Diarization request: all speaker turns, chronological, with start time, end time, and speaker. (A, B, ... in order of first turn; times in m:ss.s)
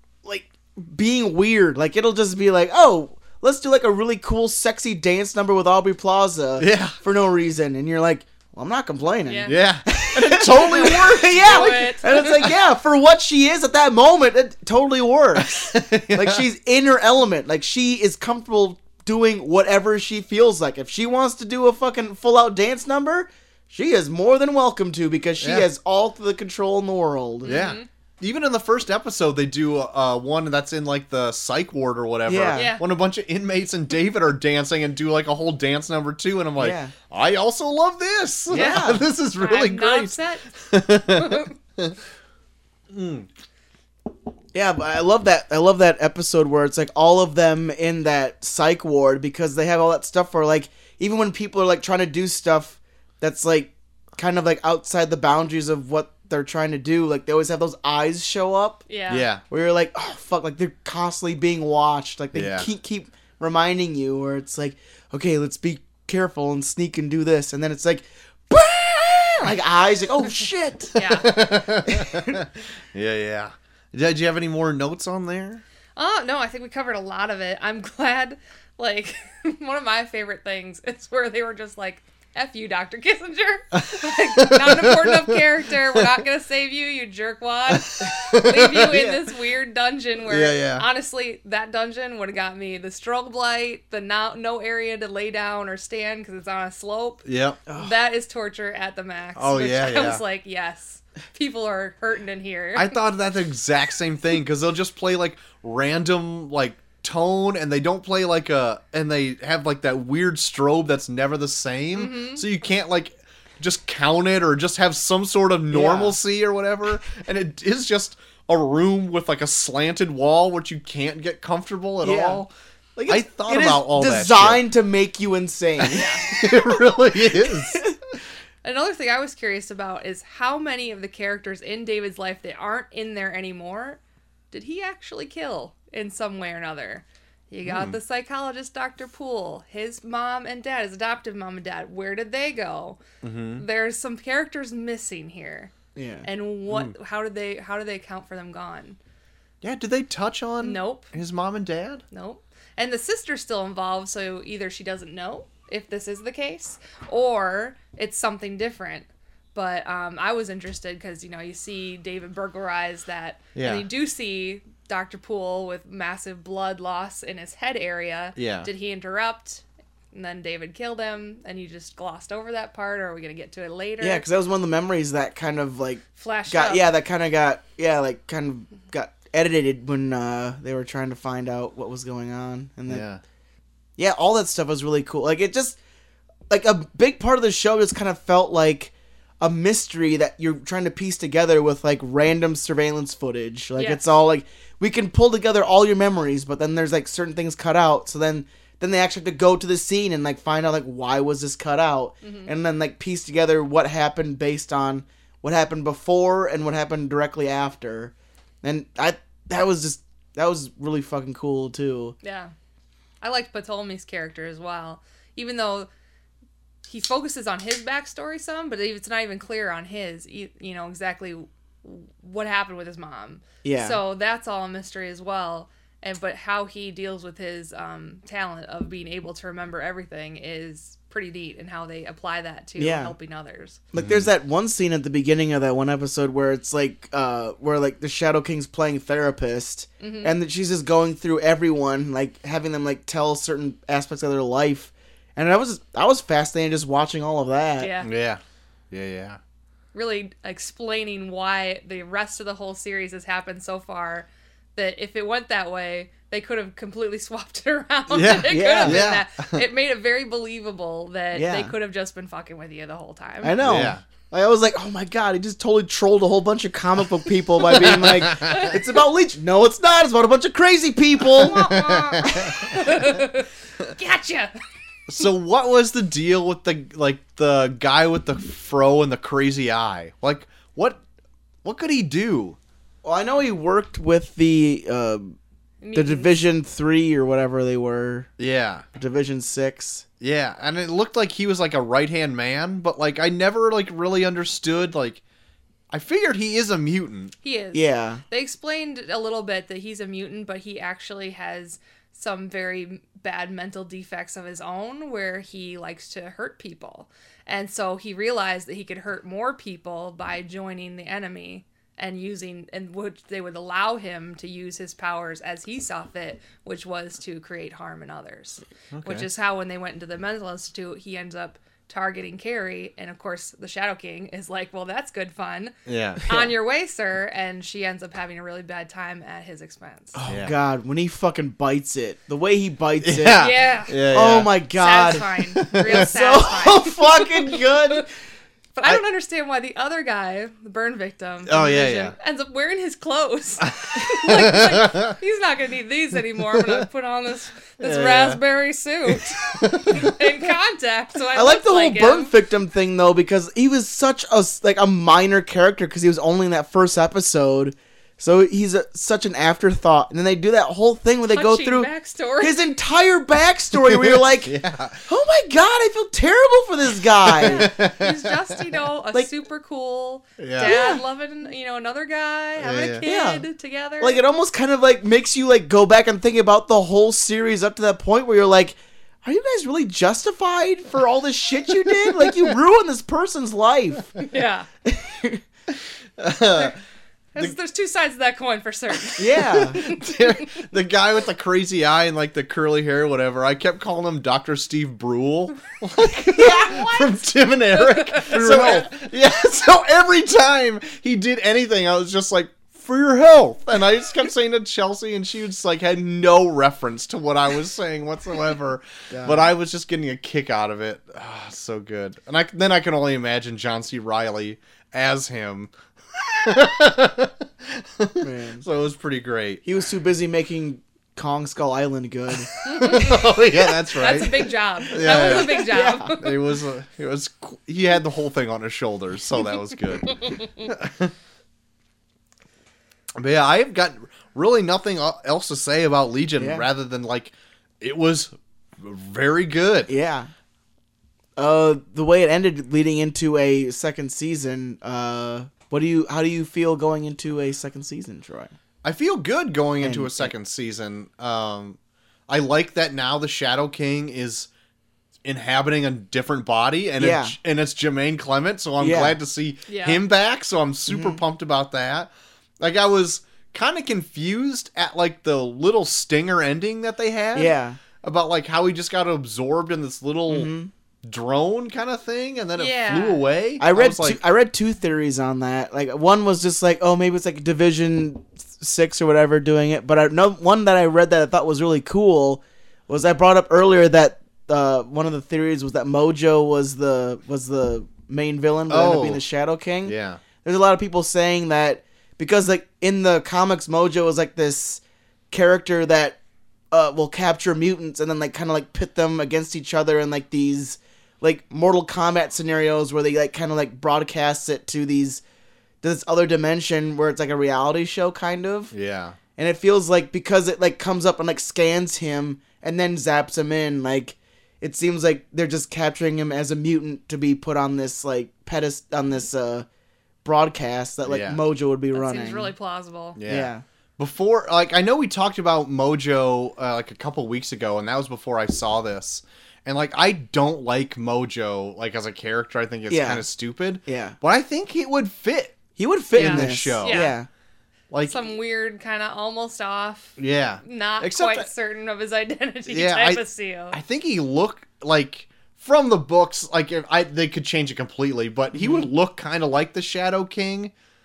0:00.2-0:27.6 A
0:06.6-0:07.0 B
0:09.3-0:09.6 C
0:09.5-0:12.4 B
0:11.4-0:12.5 C
0:15.5-0:16.4 B
0:25.4-0:25.7 B
0:27.4-0:27.9 C
0:27.5-0:42.0 B
0:32.3-0:32.7 A
0:32.6-0:32.8 C
0:36.6-0:36.9 A
0:38.5-0:39.1 A
0:38.5-0:40.5 C
0:41.1-0:41.5 C
0:42.9-0:43.3 B
0:44.5-0:58.8 A
0:58.9-0:59.3 C
0:59.1-0:59.4 B
0:59.5-1:12.4 A
1:02.3-1:02.7 B
1:11.0-1:11.4 C
1:11.2-1:15.6 B
1:16.0-1:43.0 C
1:23.7-1:25.4 B
1:27.7-1:29.2 B
1:30.3-1:30.9 B
1:37.2-1:37.6 B
1:39.4-1:40.2 B
1:42.8-2:02.5 B
1:51.9-1:52.4 C
1:55.7-1:56.2 A
2:02.0-2:02.4 A
2:03.0-2:06.6 A
2:03.1-2:04.6 B
2:05.9-2:06.4 C
2:05.9-2:07.8 B
2:07.4-2:08.0 A
2:08.6-2:14.0 C
2:14.5-2:23.0 C
2:17.6-2:18.0 B
2:23.2-2:23.6 B
2:23.6-2:25.7 C
2:26.0-2:26.3 A
2:26.2-2:29.0 C
2:29.6-2:32.0 B
2:30.6-2:31.1 C
2:32.1-2:54.3 C
2:43.6-2:43.9 B
2:48.4-2:48.7 B
2:54.0-3:03.1 A
2:56.2-2:56.9 C
3:02.9-3:03.2 B
3:04.0-3:05.8 A
3:06.5-3:32.2 A
3:13.8-3:14.0 C
3:22.2-3:22.5 C
3:32.2-3:32.5 C
3:33.2-3:35.9 C
3:36.9-3:53.8 C
3:43.6-3:44.0 A
3:52.8-3:53.1 A
3:53.9-4:07.9 A
3:54.0-3:54.3 B
4:00.0-4:00.3 C
4:07.8-4:08.1 C
4:08.0-4:09.4 B
4:09.9-4:23.6 C
4:18.1-4:19.7 B
4:18.5-4:19.0 A
4:21.3-4:21.7 A
4:23.4-4:33.0 A
4:23.6-4:24.0 B
4:27.6-4:28.7 B
4:28.5-4:28.8 C
4:31.4-4:33.1 B
4:31.5-4:34.6 C
4:35.1-4:41.0 B
4:41.6-4:42.6 B
4:43.0-4:45.4 A
4:45.8-4:46.4 C
4:45.9-4:48.3 A
4:48.4-4:48.8 B
4:49.0-4:50.0 A
4:50.2-4:55.2 B
4:55.9-4:57.3 B
4:57.4-5:30.2 C
4:57.7-4:58.2 A
5:18.9-5:19.3 B
5:25.9-5:26.2 B
5:30.1-5:33.4 A
5:30.3-5:30.6 B
5:33.0-5:34.6 B
5:33.4-5:34.0 C
5:34.0-5:38.1 A
5:34.8-5:38.0 C
5:35.6-5:36.1 B
5:38.8-5:52.3 C
5:41.5-5:42.2 B
5:43.7-5:45.1 B
5:46.6-5:46.8 B
5:47.8-5:48.4 B
5:49.1-5:50.5 B
5:51.4-6:01.9 A
6:01.3-6:02.6 C
6:02.4-6:04.5 A
6:03.7-6:05.1 B
6:05.1-6:07.7 A
6:07.3-6:08.6 B
6:07.4-6:14.2 C
6:10.4-6:10.7 B
6:10.6-6:11.0 A
6:12.6-6:13.1 B
6:13.0-6:13.4 A
6:14.0-6:24.1 A
6:21.7-6:22.5 B
6:24.2-6:24.7 C
6:24.8-6:25.4 A
6:26.2-6:26.8 B
6:27.4-6:30.4 C
6:29.2-6:29.8 A
6:29.4-6:59.6 B
6:36.3-6:37.2 C
6:37.7-6:38.9 C
6:38.3-6:38.9 A
6:49.1-6:49.5 A
6:58.2-6:58.6 A
6:59.6-7:02.6 A
7:02.5-7:11.1 B
7:02.6-7:06.3 C
7:05.1-7:06.2 A
7:10.2-7:10.5 C
7:13.2-7:19.9 B
7:16.4-7:16.6 A
7:19.9-7:20.3 A
7:21.4-7:28.5 A
7:28.8-7:34.5 B
7:29.8-7:30.3 A
7:35.2-7:50.5 B
7:37.0-7:37.4 A
7:38.8-7:39.2 A
7:39.7-7:40.0 C
7:40.9-7:41.2 A
7:47.4-7:47.8 A
7:50.3-7:50.7 A
7:51.0-7:54.2 B
7:52.6-7:53.2 C
7:53.6-8:16.2 A
8:08.7-8:09.2 B
8:09.8-8:10.2 B
8:16.7-8:25.2 A
8:25.8-8:28.7 A
8:28.7-8:29.2 B
8:29.4-8:39.7 A
8:40.2-8:42.5 A
8:41.0-8:41.4 B
8:41.9-8:43.2 C
8:43.2-8:55.6 B
8:43.3-8:43.6 A
8:52.9-8:53.2 A
8:53.9-8:54.2 A
8:55.8-8:57.3 A
8:56.1-8:57.1 B
8:56.2-8:57.2 C
8:57.9-8:58.3 B
8:58.0-9:03.8 C
9:00.2-9:01.5 B
9:02.7-9:10.7 B
9:08.5-9:08.9 A